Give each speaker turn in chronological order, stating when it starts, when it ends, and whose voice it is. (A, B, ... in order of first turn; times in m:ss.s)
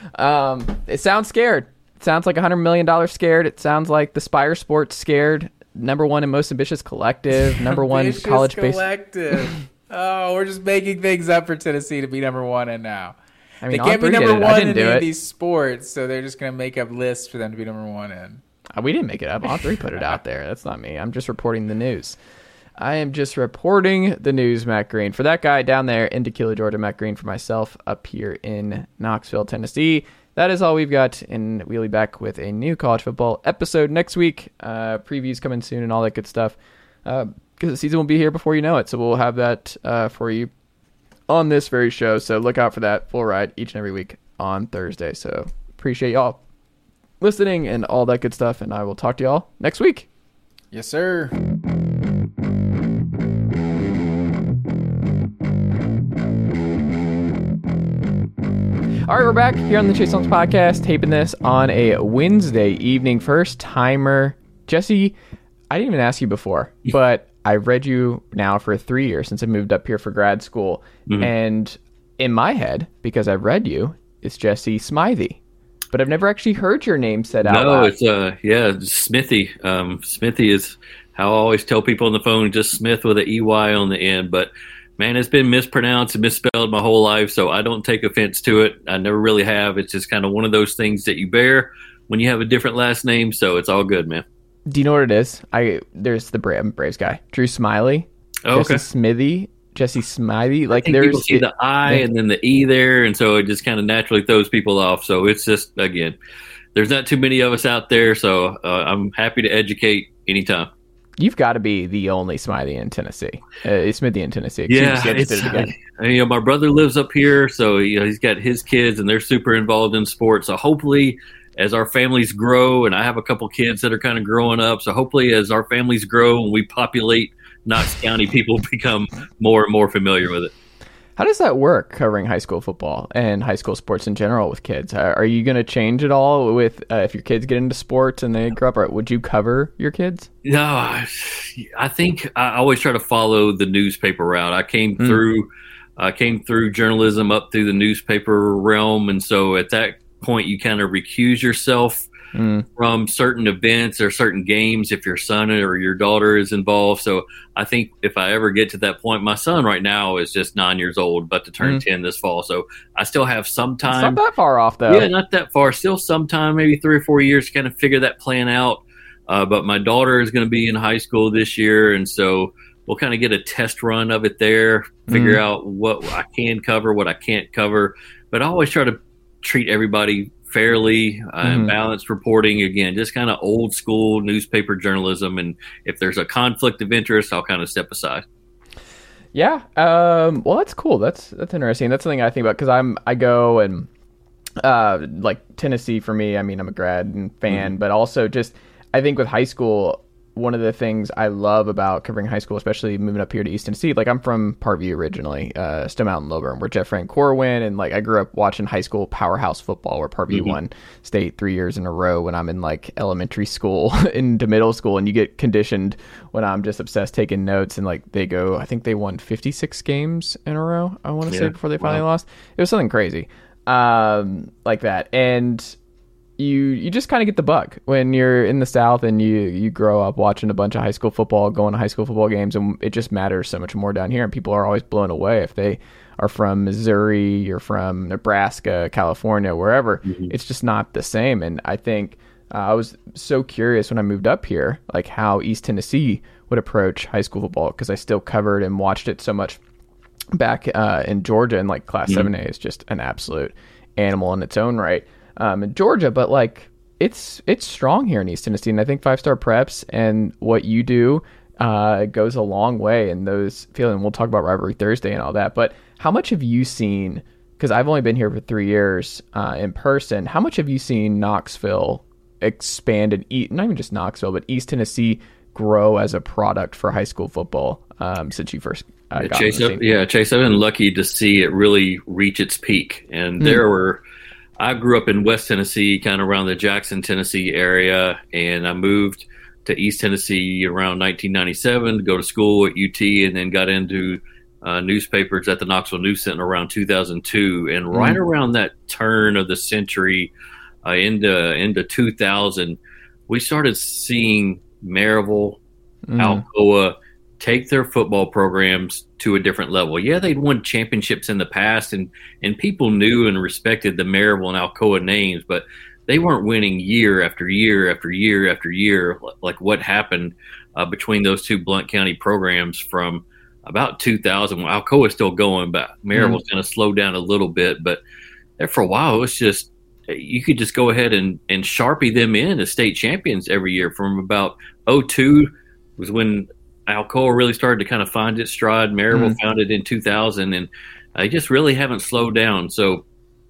0:00.1-0:08.8 A
0:07.3-0:13.1 B
0:13.6-0:15.1 A
0:13.7-0:18.4 B
0:18.7-0:22.2 A
0:19.6-0:20.1 B
0:22.8-0:40.5 A
0:41.3-0:46.4 A
0:47.2-0:50.1 A
0:50.7-0:51.3 B
0:59.1-1:05.2 A
1:05.7-1:15.4 A
1:11.1-1:11.3 C
1:15.9-1:17.9 A
1:17.4-1:34.2 C
1:34.7-1:42.1 A
1:38.4-1:38.8 C
1:40.7-1:46.2 C
1:46.7-1:50.7 C
1:51.2-1:55.7 A
1:54.7-2:10.5 C
2:11.2-2:20.3 A
2:20.4-2:32.1 C
2:32.3-2:32.7 A
2:32.8-2:44.2 C
2:43.9-2:45.1 A
2:44.9-3:08.2 C
2:55.1-2:55.4 A
3:01.4-3:01.7 A
3:09.3-3:13.9 A
3:14.6-3:45.8 A
3:30.3-3:30.6 C
3:41.3-3:42.0 C
3:46.4-4:09.6 A
4:00.0-4:00.3 C
4:10.3-4:39.8 A
4:39.2-4:44.0 C
4:44.6-5:00.3 C
4:57.9-4:58.2 A
5:00.8-5:05.6 C
5:06.1-5:06.4 A
5:06.2-5:28.0 C
5:26.1-5:26.4 A
5:28.6-5:43.0 C
5:39.1-5:39.4 A